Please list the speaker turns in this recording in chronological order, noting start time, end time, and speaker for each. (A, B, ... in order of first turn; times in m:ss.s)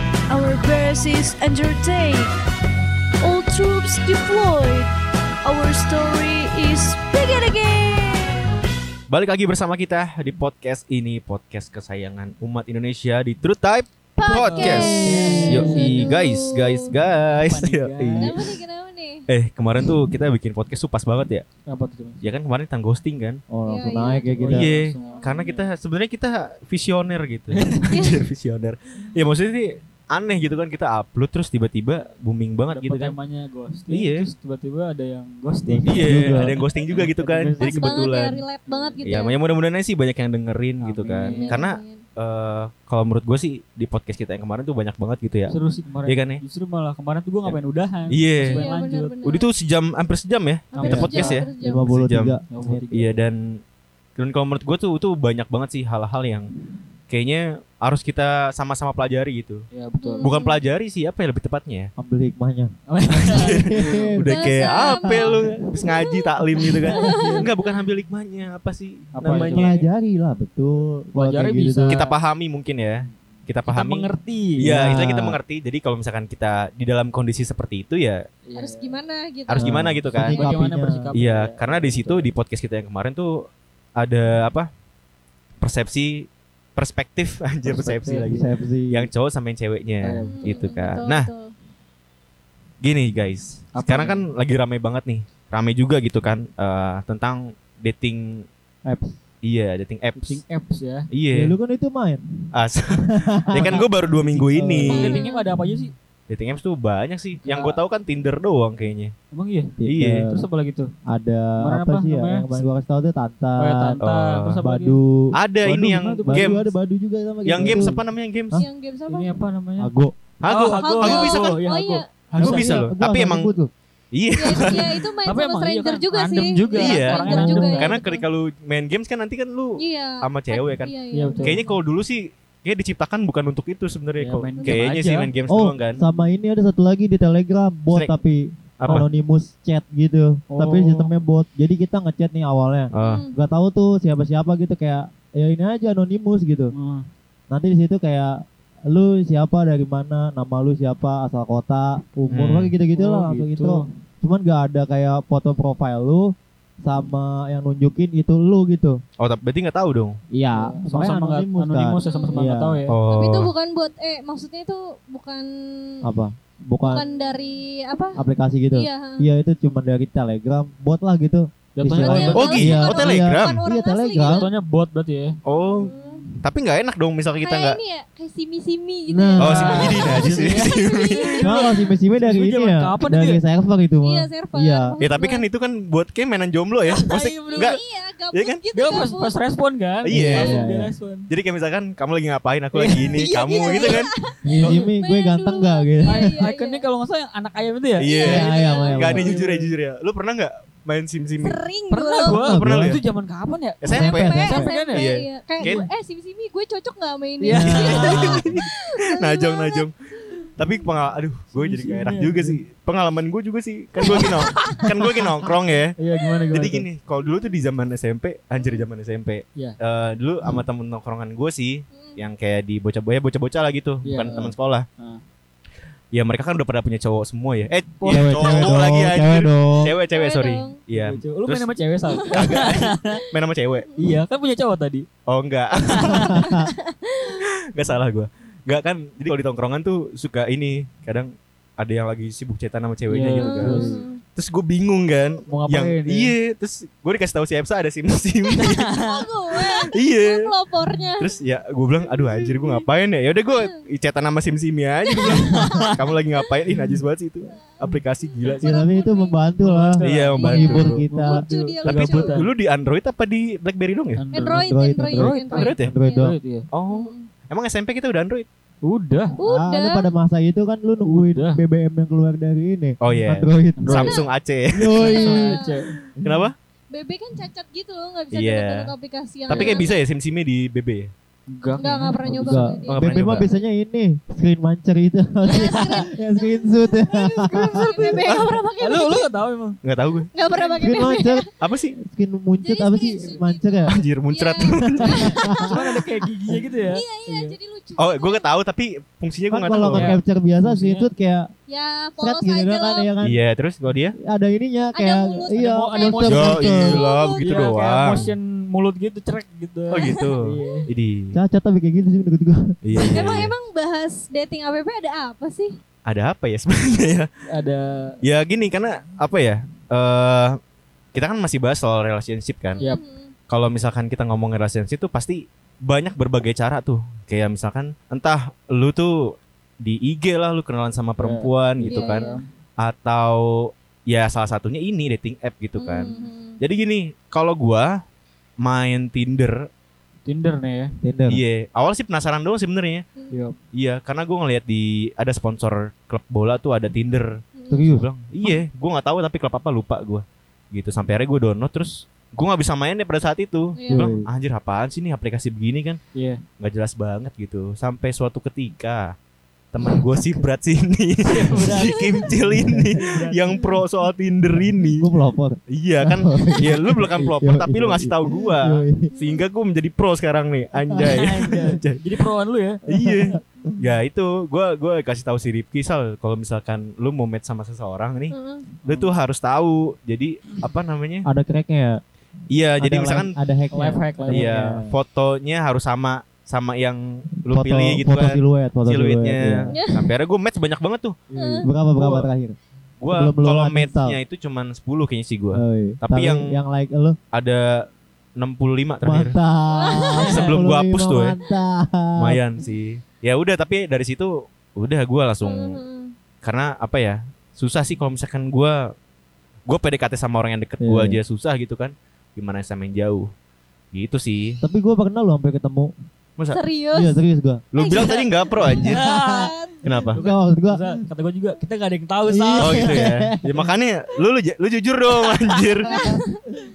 0:00.3-0:02.3 A
0:03.2-0:04.9 A
0:05.4-0:08.4 A
0:09.1-0:18.6 B
0:14.2-0:16.9 C
0:14.2-0:16.1 D
0:17.4-0:18.4 D
0:18.2-0:19.3 C
0:19.3-0:21.5 B
0:21.7-0:22.2 D
0:22.2-0:23.4 B
0:23.5-0:24.7 E
0:23.7-0:25.5 C
0:24.4-0:25.7 D
0:24.5-0:33.2 B
0:27.5-0:27.8 D
0:27.9-0:28.2 C
0:32.7-0:38.1 D
0:33.9-0:34.3 B
0:35.7-0:36.6 E
0:35.8-0:38.4 B
0:37.6-0:39.4 C
0:38.7-0:39.2 D
0:39.1-0:46.4 B
0:40.8-0:41.6 D
0:41.2-0:42.0 C
0:45.5-0:49.2 D
0:48.1-0:48.7 B
0:48.5-0:49.5 C
0:49.2-0:52.4 B
0:50.7-0:51.4 D
0:50.8-0:51.9 C
0:50.9-0:52.8 E
0:52.5-0:53.2 D
0:52.9-0:53.6 B
0:54.2-0:56.5 B
0:57.1-0:59.6 B
0:59.7-1:00.3 D
1:00.0-1:00.6 C
1:00.2-1:01.9 B
1:02.0-1:04.5 E
1:02.9-1:04.2 D
1:03.1-1:09.8 B
1:04.3-1:07.5 C
1:05.2-1:05.5 E
1:06.8-1:07.5 D
1:09.1-1:09.8 D
1:09.2-1:12.0 E
1:11.2-1:12.1 D
1:11.9-1:14.1 B
1:13.1-1:14.7 D
1:14.6-1:18.2 B
1:14.6-1:15.4 E
1:18.5-1:19.0 D
1:18.6-1:20.5 C
1:19.5-1:20.4 B
1:19.6-1:21.1 E
1:20.2-1:22.3 D
1:21.1-1:24.7 B
1:25.6-1:31.3 B
1:27.6-1:28.5 D
1:28.3-1:29.1 E
1:30.0-1:30.6 D
1:30.2-1:31.5 C
1:32.8-1:38.5 B
1:33.7-1:34.2 D
1:38.8-1:39.2 E
1:39.4-1:40.4 B
1:40.2-1:41.1 D
1:41.1-1:41.5 B
1:41.3-1:42.3 E
1:42.5-1:45.1 B
1:43.0-1:45.2 E
1:44.9-1:45.9 D
1:44.9-1:45.5 C
1:46.3-1:49.1 B
1:47.4-1:47.8 D
1:49.3-1:50.9 D
1:49.8-1:50.4 E
1:49.8-1:50.2 B
1:51.1-1:54.0 E
1:51.6-1:52.6 D
1:53.6-1:55.0 D
1:54.0-1:54.6 B
1:54.6-1:58.7 E
1:55.3-1:56.6 B
1:55.6-1:56.7 D
1:57.4-1:58.6 B
1:58.6-1:59.3 C
1:59.1-1:59.9 D
1:59.8-2:00.2 E
2:00.4-2:01.6 B
2:00.4-2:02.8 D
2:00.7-2:02.0 C
2:02.3-2:03.5 B
2:02.4-2:03.7 E
2:04.1-2:05.1 B
2:04.4-2:08.2 C
2:04.6-2:08.0 D
2:06.7-2:16.0 B
2:09.8-2:11.6 C
2:11.1-2:11.6 D
2:14.2-2:15.3 D
2:15.5-2:26.7 E
2:18.8-2:19.1 B
2:20.5-2:21.1 D
2:22.9-2:23.2 B
2:23.0-2:23.4 C
2:26.7-2:27.1 D
2:27.5-2:39.0 E
2:32.3-2:32.7 B
2:32.9-2:33.9 D
2:39.2-2:40.2 B
2:40.3-2:42.8 E
2:40.5-2:43.0 D
2:42.0-2:42.4 C
2:42.9-2:43.5 B
2:43.1-2:46.0 C
2:46.0-2:47.1 E
2:46.8-2:48.2 C
2:48.2-2:54.5 E
2:48.7-2:49.3 C
2:51.8-2:52.8 D
2:52.0-2:53.6 B
2:52.1-2:54.5 C
2:54.2-2:55.4 D
2:55.5-2:57.8 B
2:55.5-2:56.3 C
2:57.4-3:01.6 C
2:59.1-3:00.3 E
2:59.4-3:01.4 B
2:59.7-3:03.4 D
3:01.4-3:05.0 E
3:04.0-3:05.5 C
3:05.0-3:07.8 B
3:06.9-3:07.8 D
3:07.5-3:09.3 C
3:08.3-3:08.6 B
3:08.7-3:11.3 D
3:10.0-3:10.6 B
3:10.1-3:10.9 E
3:11.3-3:14.1 B
3:12.8-3:14.1 D
3:13.2-3:16.8 C
3:14.4-3:16.4 E
3:16.0-3:19.7 D
3:18.0-3:21.6 B
3:18.1-3:18.9 C
3:18.2-3:19.4 E
3:21.4-3:22.4 C
3:21.9-3:25.1 D
3:22.3-3:23.0 E
3:22.4-3:23.0 B
3:23.8-3:25.8 B
3:23.9-3:24.6 E
3:23.9-3:29.8 C
3:25.6-3:25.9 D
3:27.4-3:28.3 D
3:27.5-3:28.5 E
3:28.1-3:29.9 B
3:30.5-3:36.0 B
3:31.5-3:32.6 D
3:34.0-3:35.3 D
3:34.2-3:34.8 C
3:36.0-3:36.9 D
3:36.5-3:44.9 B
3:41.9-3:42.2 C
3:44.0-3:45.2 D
3:46.1-3:51.7 B
3:48.0-3:48.7 D
3:48.1-3:49.9 E
3:50.0-3:50.8 C
3:50.9-3:53.2 D
3:52.1-3:53.1 C
3:52.2-3:53.9 B
3:54.0-3:55.1 D
3:55.3-3:56.6 B
3:55.8-3:56.3 D
3:56.1-3:56.7 E
3:56.4-3:57.4 C
3:57.3-4:08.9 B
4:03.1-4:03.9 D
4:03.4-4:04.2 C
4:03.6-4:04.0 E
4:05.5-4:06.3 D
4:08.5-4:11.4 C
4:08.6-4:09.2 D
4:09.5-4:10.5 B
4:11.2-4:18.7 B
4:12.0-4:12.9 C
4:13.5-4:13.8 C
4:15.1-4:16.0 C
4:15.4-4:15.9 D
4:17.5-4:19.4 C
4:18.6-4:21.4 E
4:19.6-4:22.5 D
4:20.0-4:21.1 B
4:20.5-4:22.4 C
4:21.6-4:24.2 B
4:24.2-4:26.7 D
4:24.3-4:26.3 C
4:24.7-4:26.4 E
4:25.5-4:25.9 B
4:26.7-4:28.5 B
4:26.9-4:27.3 C
4:28.8-4:29.4 D
4:29.4-4:30.1 C
4:29.4-4:34.1 E
4:31.1-4:31.6 D
4:33.0-4:35.1 B
4:33.8-4:34.1 D
4:34.0-4:34.3 C
4:34.8-4:35.6 E
4:34.9-4:35.9 D
4:35.1-4:36.0 C
4:36.2-4:36.5 E
4:36.2-4:36.6 B
4:36.9-4:40.1 C
4:38.3-4:38.9 B
4:39.5-4:39.9 D
4:39.5-4:41.1 B
4:41.5-4:43.4 D
4:41.8-4:43.6 C
4:42.3-4:48.2 E
4:42.9-4:43.5 B
4:45.4-4:49.3 C
4:47.5-4:49.8 D
4:48.2-4:48.6 B
4:49.8-4:50.3 B
4:50.3-4:51.4 C
4:50.5-4:51.0 D
4:50.8-4:54.0 E
4:51.6-4:52.0 B
4:52.6-4:55.8 C
4:53.9-4:55.5 B
4:54.9-4:55.7 E
4:55.7-4:57.6 D
4:56.8-4:58.5 C
4:58.0-5:00.1 B
4:59.5-5:01.5 E
4:59.9-5:01.1 D
5:01.7-5:03.1 C
5:02.2-5:03.4 E
5:03.2-5:04.2 B
5:04.2-5:07.0 E
5:05.0-5:07.7 C
5:05.5-5:06.6 D
5:06.3-5:08.3 B
5:07.4-5:10.9 D
5:09.9-5:11.4 B
5:10.2-5:10.9 C
5:11.3-5:13.2 E
5:12.8-5:13.6 B
5:13.0-5:15.8 C
5:16.1-5:17.3 B
5:17.5-5:18.2 D
5:18.2-5:20.6 B
5:21.1-5:22.8 B
5:22.8-5:23.3 C
5:23.5-5:32.3 B
5:31.2-5:32.5 D
5:31.8-5:32.4 C
5:32.8-5:38.0 B
5:35.8-5:36.6 C
5:38.6-5:39.7 B
5:40.3-5:40.9 D
5:41.0-5:41.4 E
5:41.3-5:43.0 B
5:43.3-5:43.6 D
5:43.7-5:47.4 B
5:47.6-5:47.9 C
5:47.7-5:48.1 E
5:47.9-5:56.0 B
5:53.8-5:54.1 C
5:53.9-5:54.3 E
5:56.2-5:56.4 D
5:56.6-5:59.1 B
5:59.7-6:05.1 B
6:01.3-6:02.3 D
6:02.6-6:03.0 E
6:03.0-6:03.6 D
6:05.0-6:09.1 E
6:05.7-6:12.1 B
6:09.1-6:09.4 C
6:11.0-6:12.8 D
6:12.9-6:21.3 B
6:12.9-6:13.4 E
6:18.3-6:18.7 C
6:18.9-6:19.1 D
6:21.2-6:22.0 E
6:22.5-6:23.3 B
6:22.8-6:24.9 E
6:23.7-6:24.5 D
6:24.3-6:31.2 B
6:27.5-6:29.7 E
6:29.8-6:30.1 C
6:31.3-6:31.6 D
6:31.3-6:31.7 C
6:31.6-6:32.6 E
6:32.0-6:32.3 B
6:33.0-6:36.6 B
6:33.1-6:34.2 E
6:35.5-6:37.2 E
6:37.3-6:37.9 B
6:38.4-6:39.4 B
6:39.0-6:42.4 E
6:39.7-6:40.3 C
6:40.3-6:41.4 B
6:42.2-6:45.8 B
6:45.4-6:46.1 C
6:46.4-6:48.9 B
6:49.7-6:53.3 B
6:50.8-6:51.2 E
6:53.9-6:54.6 B
6:54.6-6:55.9 E
6:56.5-6:57.1 C
6:56.9-6:57.6 E
6:57.7-6:59.0 B
6:57.8-6:59.8 C
6:58.6-6:59.5 E
6:58.9-6:59.5 D
6:59.8-7:00.2 B
7:00.1-7:01.0 E
7:00.1-7:03.1 D
7:02.3-7:03.7 E
7:02.6-7:06.0 B
7:05.9-7:06.6 C
7:05.9-7:06.2 E